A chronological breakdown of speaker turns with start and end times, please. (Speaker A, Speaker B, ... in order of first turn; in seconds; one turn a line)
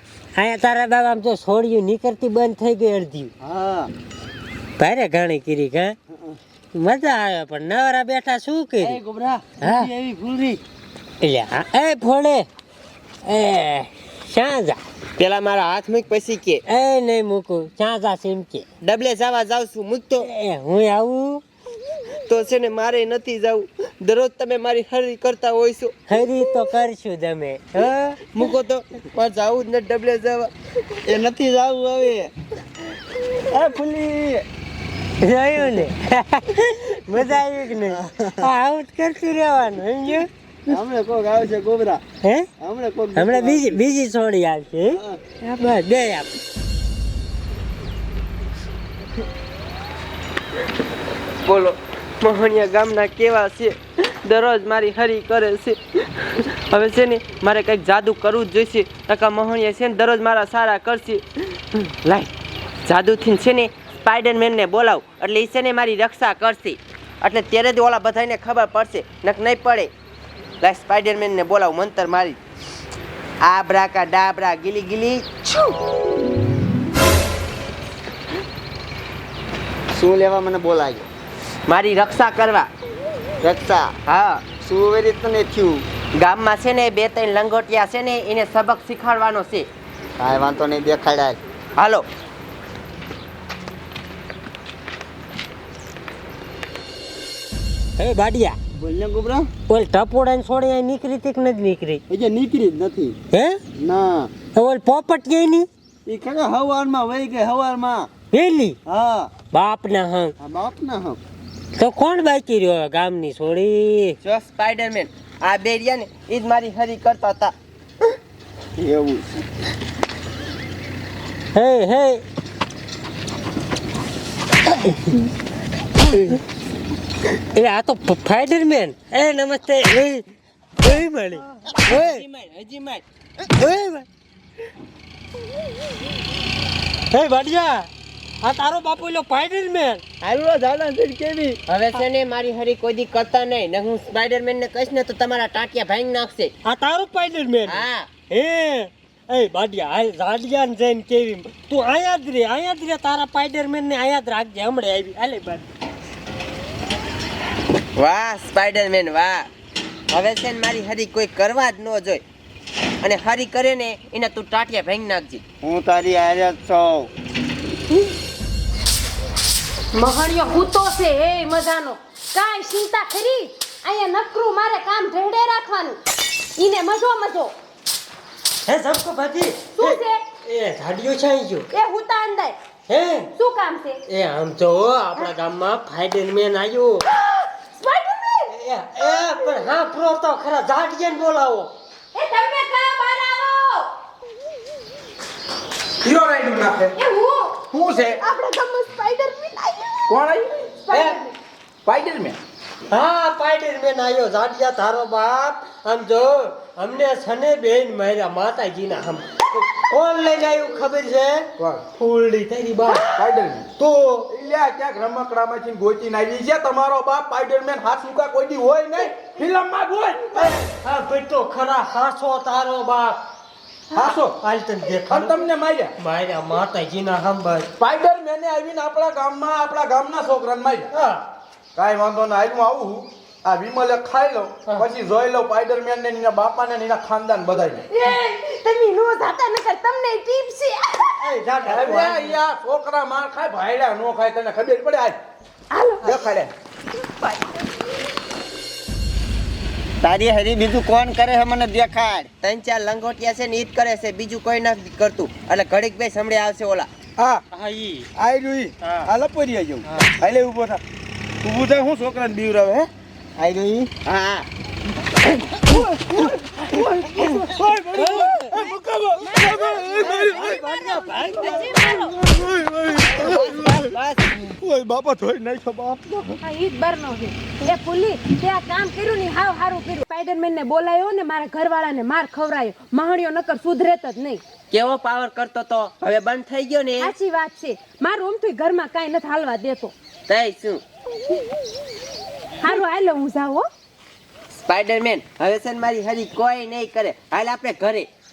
Speaker A: 0.3-3.3
Speaker B: 3.4-3.9
Speaker A: 4.8-6.0
Speaker B: 6.1-6.4
Speaker A: 6.7-9.0
Speaker B: 8.8-10.6
Speaker A: 9.6-9.9
Speaker A: 11.2-12.5
Speaker A: 13.2-14.8
Speaker C: 15.2-16.6
Speaker A: 16.7-18.6
Speaker C: 18.8-20.3
Speaker A: 20.2-21.4
Speaker C: 22.2-26.0
Speaker A: 26.1-28.2
Speaker C: 28.3-30.5
Speaker B: 31.0-32.3
Speaker B: 33.3-34.4
Speaker A: 35.2-40.8
Speaker B: 37.9-38.5
Speaker B: 40.7-42.0
Speaker A: 42.2-42.5
Speaker B: 42.6-43.8
Speaker A: 43.1-46.3
Speaker B: 44.9-45.2
Speaker C: 51.4-62.3
Speaker C: 62.8-69.9
Speaker C: 70.6-72.4
Speaker C: 73.4-75.8
Speaker B: 79.9-81.1
Speaker C: 81.7-82.7
Speaker B: 83.4-83.9
Speaker C: 84.0-84.4
Speaker B: 84.6-85.8
Speaker C: 86.2-89.7
Speaker B: 90.2-91.4
Speaker C: 91.8-92.0
Speaker A: 98.0-98.6
Speaker B: 98.8-99.5
Speaker A: 99.7-102.0
Speaker B: 102.1-103.2
Speaker A: 103.3-103.6
Speaker B: 103.8-104.3
Speaker A: 104.5-105.7
Speaker B: 106.0-108.1
Speaker A: 108.3-108.8
Speaker B: 108.8-109.3
Speaker A: 109.5-110.3
Speaker B: 110.4-111.2
Speaker A: 111.7-114.2
Speaker C: 114.2-117.5
Speaker B: 118.8-119.3
Speaker A: 121.5-122.2
Speaker A: 124.8-125.1
Speaker A: 127.5-130.2
Speaker A: 130.8-132.2
Speaker C: 131.7-133.0
Speaker A: 133.4-134.1
Speaker A: 137.1-137.9
Speaker A: 138.4-140.0
Speaker C: 140.2-146.5
Speaker A: 146.6-155.7
Speaker C: 147.7-148.1
Speaker C: 157.9-159.5
Speaker C: 160.1-162.2
Speaker C: 163.0-165.4
Speaker B: 165.6-167.1
Speaker D: 169.9-176.0
Speaker D: 176.6-177.5
Speaker A: 178.7-181.7
Speaker D: 179.8-180.3
Speaker D: 181.7-182.6
Speaker A: 182.9-183.3
Speaker D: 183.3-184.0
Speaker A: 184.1-187.1
Speaker D: 187.1-188.5
Speaker A: 188.5-191.7
Speaker D: 189.1-189.6
Speaker D: 192.1-193.9
Speaker E: 196.0-197.0
Speaker D: 197.0-197.7
Speaker E: 197.7-198.2
Speaker D: 198.2-200.2
Speaker E: 200.1-200.7
Speaker D: 200.8-201.3
Speaker A: 200.9-201.2
Speaker E: 201.8-202.4
Speaker A: 202.9-213.2
Speaker E: 211.6-211.8
Speaker E: 213.1-213.7
Speaker A: 213.8-214.3
Speaker E: 214.3-220.6
Speaker A: 220.3-223.2
Speaker E: 223.9-224.4
Speaker A: 223.9-227.7
Speaker E: 225.1-225.9
Speaker E: 227.8-230.9
Speaker A: 230.9-231.2
Speaker E: 231.8-237.8
Speaker D: 237.9-241.2
Speaker A: 241.2-242.4
Speaker E: 241.6-245.2
Speaker D: 245.7-246.3
Speaker E: 246.0-246.5
Speaker D: 247.0-247.8
Speaker B: 250.0-252.3
Speaker C: 252.4-256.9
Speaker E: 257.2-257.4
Speaker A: 257.5-258.1
Speaker E: 258.1-260.8
Speaker A: 258.8-259.1
Speaker A: 259.9-260.1
Speaker E: 261.4-262.9
Speaker B: 263.4-263.9
Speaker C: 264.1-264.5
Speaker E: 265.6-273.9
Speaker A: 267.9-268.6
Speaker D: 269.2-272.1
Speaker A: 269.9-271.8
Speaker C: 273.1-274.5
Speaker E: 274.4-276.3
Speaker D: 276.4-284.4
Speaker C: 284.7-287.1
Speaker D: 287.0-289.9
Speaker C: 290.3-290.8
Speaker D: 292.6-293.6
Speaker C: 294.6-298.1